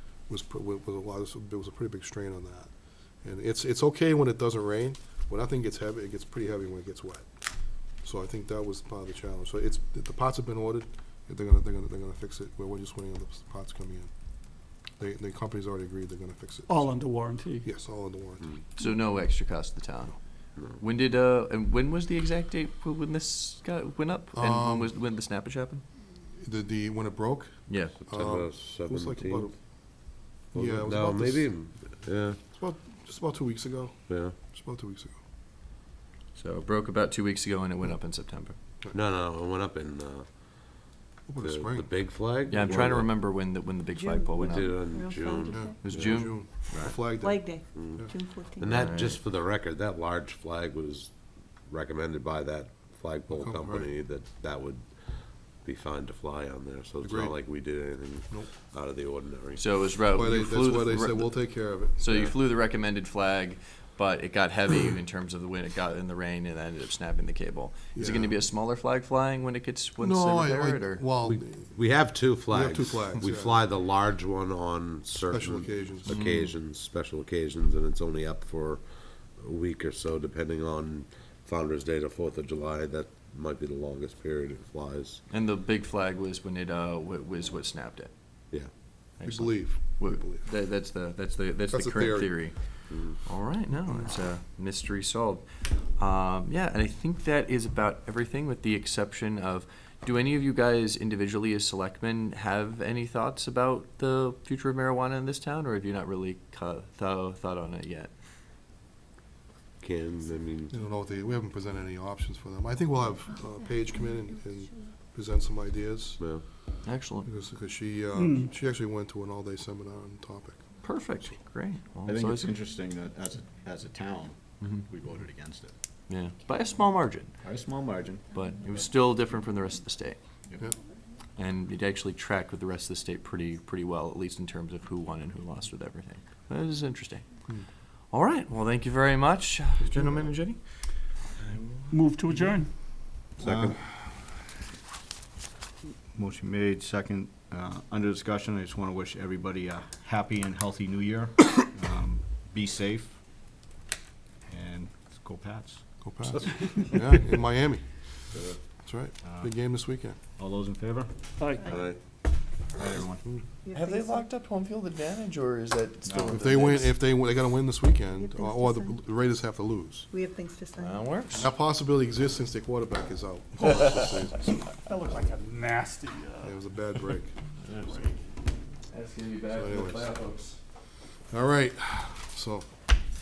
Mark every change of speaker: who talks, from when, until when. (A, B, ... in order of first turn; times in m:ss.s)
0:00.3-0:02.7 A
0:03.2-0:07.2 A
0:08.0-0:14.1 A
0:15.0-0:16.9 A
0:16.7-0:17.7 B
0:17.6-0:18.6 A
0:18.8-0:25.8 C
0:24.3-0:24.9 A
0:26.4-0:29.6 A
0:27.7-0:28.0 C
0:28.0-0:29.5 D
0:30.5-0:31.5 A
0:30.5-0:32.4 D
0:32.4-0:35.2 A
0:34.1-0:34.3 D
0:36.3-0:38.6 C
0:38.9-0:40.3 D
0:41.3-0:41.9 A
0:41.4-0:43.1 D
0:42.4-0:44.8 C
0:43.8-0:45.8 E
0:44.3-0:46.3 D
0:45.5-0:48.1 A
0:45.8-0:47.0 C
0:47.0-0:48.9 E
0:47.7-0:59.6 D
0:48.7-0:49.2 C
0:53.3-0:53.9 A
0:57.0-0:57.6 A
0:59.6-1:11.0 C
1:00.1-1:02.3 A
1:07.9-1:08.3 A
1:10.0-1:13.6 A
1:11.2-1:25.2 D
1:15.3-1:16.2 A
1:16.1-1:16.5 C
1:25.3-1:28.1 C
1:29.2-1:48.1 C
1:29.2-1:30.5 A
1:31.7-1:32.3 A
1:32.9-1:33.2 D
1:49.8-1:50.7 D
1:50.7-1:56.3 A
1:56.2-1:56.4 D
1:56.8-1:57.3 C
1:57.2-2:01.4 A
1:58.1-1:58.5 B
2:00.8-2:02.5 C
2:02.0-2:05.7 F
2:06.1-2:07.4 C
2:07.4-2:08.2 F
2:08.3-2:10.2 C
2:11.4-2:17.3 C
2:18.1-2:20.6 C
2:19.8-2:20.3 A
2:21.3-2:22.0 C
2:21.9-2:22.7 B
2:23.4-2:23.8 F
2:26.1-2:33.2 F
2:34.5-2:36.3 F
2:36.0-2:38.1 A
2:38.3-2:38.6 D
2:38.8-2:40.2 A
2:39.2-2:39.5 F
2:40.4-2:41.1 F
2:41.4-2:41.7 B
2:41.6-2:42.0 D
2:42.7-2:43.2 F
2:43.6-2:44.3 E
2:43.7-2:46.9 C
2:46.0-2:46.4 F
2:46.2-2:50.1 A
2:48.2-2:49.0 E
2:50.1-2:51.2 E
2:50.8-2:51.5 C
2:51.3-2:54.7 A
2:54.8-2:56.6 B
2:56.4-2:57.3 A
2:57.6-2:58.0 C
2:58.9-3:00.6 C
2:59.5-3:00.1 A
3:01.3-3:02.7 A